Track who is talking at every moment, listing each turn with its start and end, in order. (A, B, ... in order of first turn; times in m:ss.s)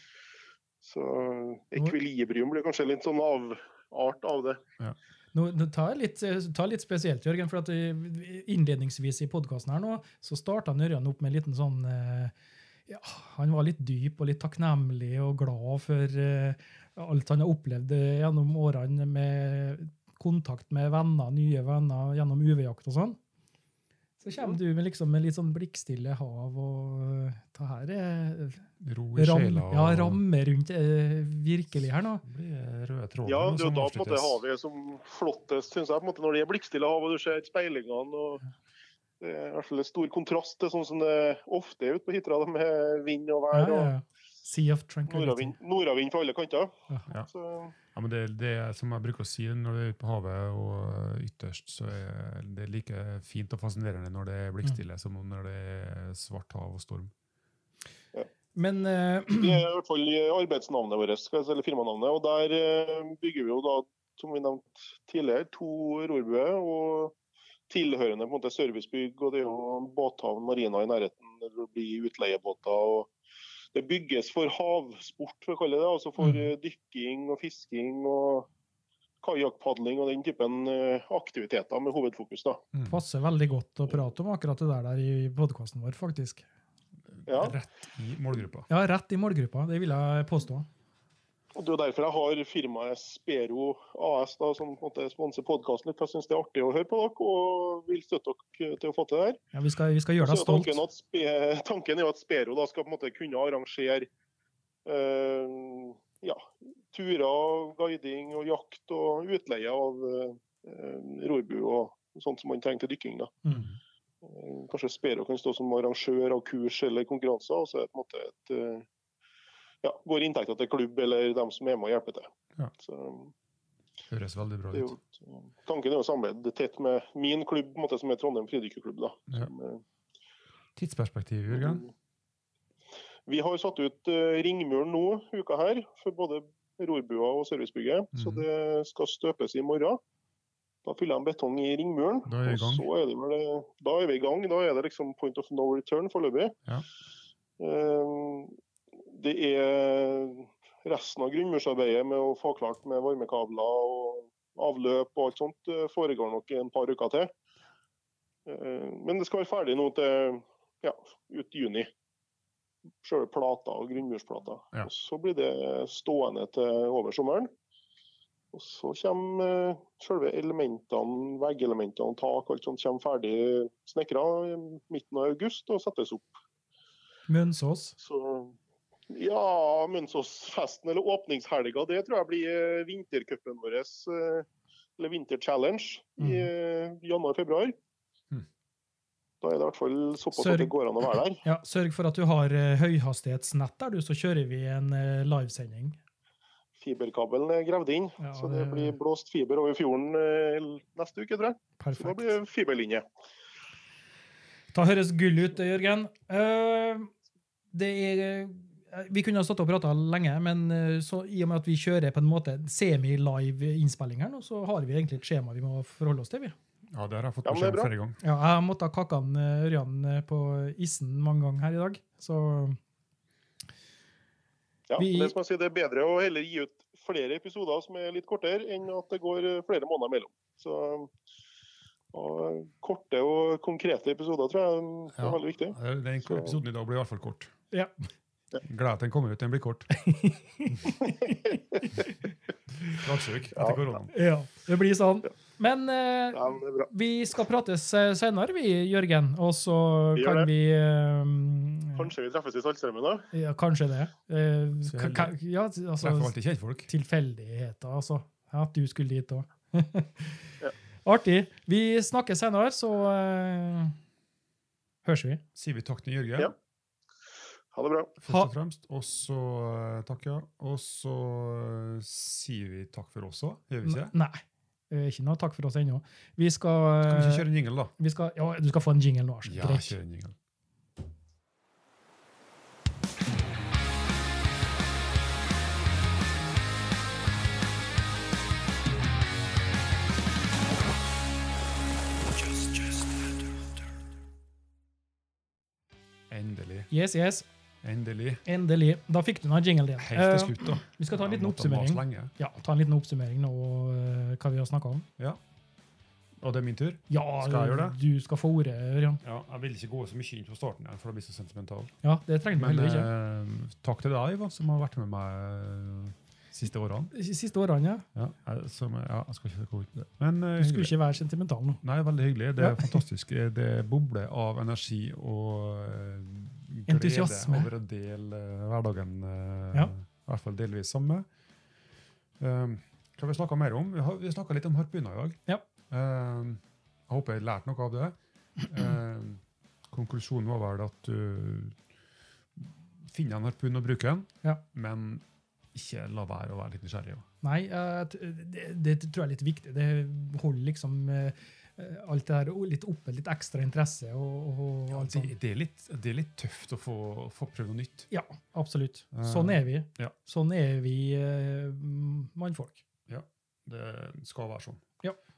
0:00.8-0:04.6 A
0:05.3-0:12.3 B
0:12.9-0:23.2 B
0:24.2-0:32.2 B
0:28.8-0:30.2 C
0:32.2-0:34.4 C
0:33.2-0:38.4 A
0:39.2-0:43.9 A
0:43.5-0:45.5 B
0:45.1-0:47.8 A
0:47.9-0:57.1 C
0:58.5-0:59.6 B
0:59.3-1:07.1 A
1:07.7-1:13.1 A
1:13.7-1:18.5 A
1:19.2-1:22.6 A
1:22.9-1:26.4 B
1:27.1-1:28.7 C
1:27.3-1:27.6 A
1:28.7-1:30.7 B
1:31.5-1:39.4 A
1:39.5-1:40.8 B
1:40.2-1:44.1 A
1:44.8-1:53.4 A
1:53.5-1:53.8 C
1:54.2-1:58.8 A
1:59.8-2:03.3 A
2:04.1-2:04.9 C
2:04.7-2:09.8 A
2:10.8-2:11.8 C
2:11.5-2:11.9 A
2:13.3-2:20.0 A
2:18.1-2:18.4 C
2:20.8-2:26.6 A
2:22.2-2:22.9 C
2:27.6-2:37.3 A
2:38.4-2:41.9 A
2:43.0-2:47.5 A
2:48.5-2:56.3 A
2:57.3-2:58.0 B
2:58.0-2:58.6 A
2:59.1-3:04.5 A
3:05.0-3:07.8 A
3:06.2-3:06.5 B
3:09.4-3:11.4 A
3:10.3-3:10.7 B
3:11.4-3:16.0 B
3:16.8-3:23.0 A
3:18.2-3:19.0 B
3:21.8-3:22.4 B
3:24.7-3:27.1 B
3:27.7-3:36.5 B
3:36.9-3:38.2 C
3:37.4-3:37.9 A
3:38.2-3:42.8 B
3:44.9-3:51.1 A
3:45.0-3:45.3 B
3:52.1-3:56.6 A
3:55.2-3:57.5 C
3:58.6-3:59.9 C
4:00.0-4:02.1 B
4:02.9-4:04.1 C
4:03.5-4:03.8 A
4:04.1-4:12.1 B
4:06.3-4:06.9 A
4:10.2-4:10.5 A
4:12.0-4:13.3 A
4:13.3-4:16.3 B
4:14.8-4:15.3 C
4:16.0-4:16.9 C
4:16.9-4:24.0 B
4:25.0-4:25.4 B
4:25.5-4:26.5 C
4:27.7-4:28.1 A
4:28.2-4:34.1 C
4:33.8-4:39.9 B
4:37.0-4:37.9 C
4:39.4-4:40.4 C
4:56.3-4:56.9 C
4:56.9-4:57.4 B
4:57.8-4:58.4 C
4:58.4-5:05.1 B
5:00.0-5:02.3 C
5:06.4-5:08.0 C
5:07.1-5:09.2 B
5:09.2-5:11.9 C
5:12.0-5:13.1 B
5:12.5-5:17.1 C
5:17.1-5:18.0 B
5:18.1-5:21.0 C
5:20.6-5:21.8 B
5:21.8-5:31.2 C
5:22.6-5:23.0 B
5:26.9-5:27.7 B
5:32.4-5:41.8 C
5:42.6-5:47.2 C
5:47.4-5:55.3 B
5:54.9-5:58.1 C
5:58.1-6:02.8 B
5:59.1-6:00.1 C
6:03.1-6:04.8 C